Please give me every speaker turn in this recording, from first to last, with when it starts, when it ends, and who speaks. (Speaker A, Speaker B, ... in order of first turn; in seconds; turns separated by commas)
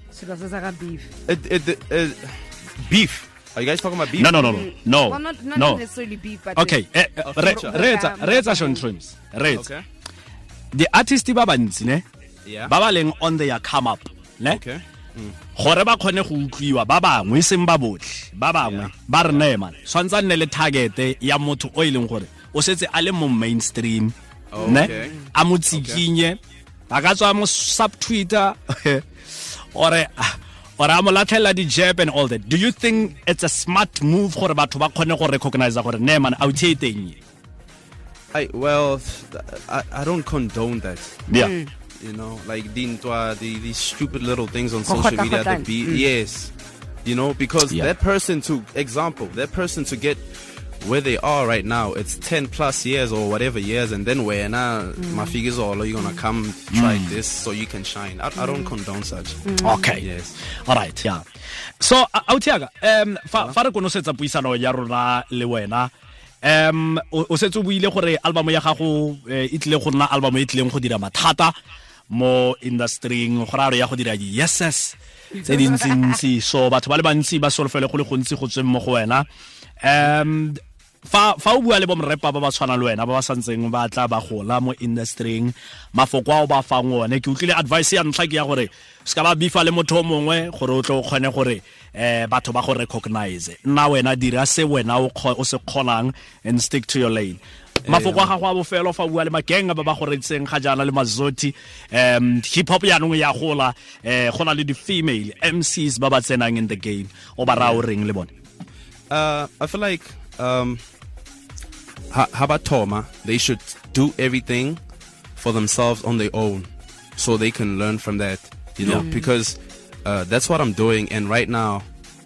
Speaker A: 0.1-1.1, Speaker B: 1.2-4.4, Speaker C: 4.1-5.8, Speaker A: 4.4-6.8, Speaker C: 6.5-9.7, Speaker B: 7.2-7.8, Speaker A: 7.4-8.8, Speaker B: 9.5-9.8, Speaker C: 10.7-12.0, Speaker B: 12.4-12.7, Speaker C: 12.7-14.6, Speaker B: 14.5-15.4, Speaker C: 15.6-26.4, Speaker B: 18.6-19.5, Speaker B: 24.5-25.1, Speaker A: 24.6-25.3, Speaker B: 25.7-26.0, Speaker C: 26.9-29.1, Speaker C: 29.7-37.2, Speaker B: 38.3-41.2, Speaker C: 41.3-41.5, Speaker A: 41.4-41.7, Speaker B: 42.0-46.5, Speaker A: 44.9-46.1, Speaker B: 47.0-50.2, Speaker B: 50.8-60.4, Speaker A: 55.0-55.4, Speaker C: 56.7-57.2, Speaker A: 58.4-58.7, Speaker A: 59.4-59.9, Speaker C: 59.6-60.1, Speaker C: 60.6-61.2, Speaker C: 61.8-65.9, Speaker C: 66.4-71.5, Speaker C: 72.1-79.2, Speaker C: 79.8-108.3, Speaker B: 97.8-98.3, Speaker B: 107.5-107.8, Speaker B: 109.1-110.8, Speaker B: 112.1-114.8, Speaker B: 115.4-121.8, Speaker C: 118.8-119.1, Speaker A: 118.8-119.3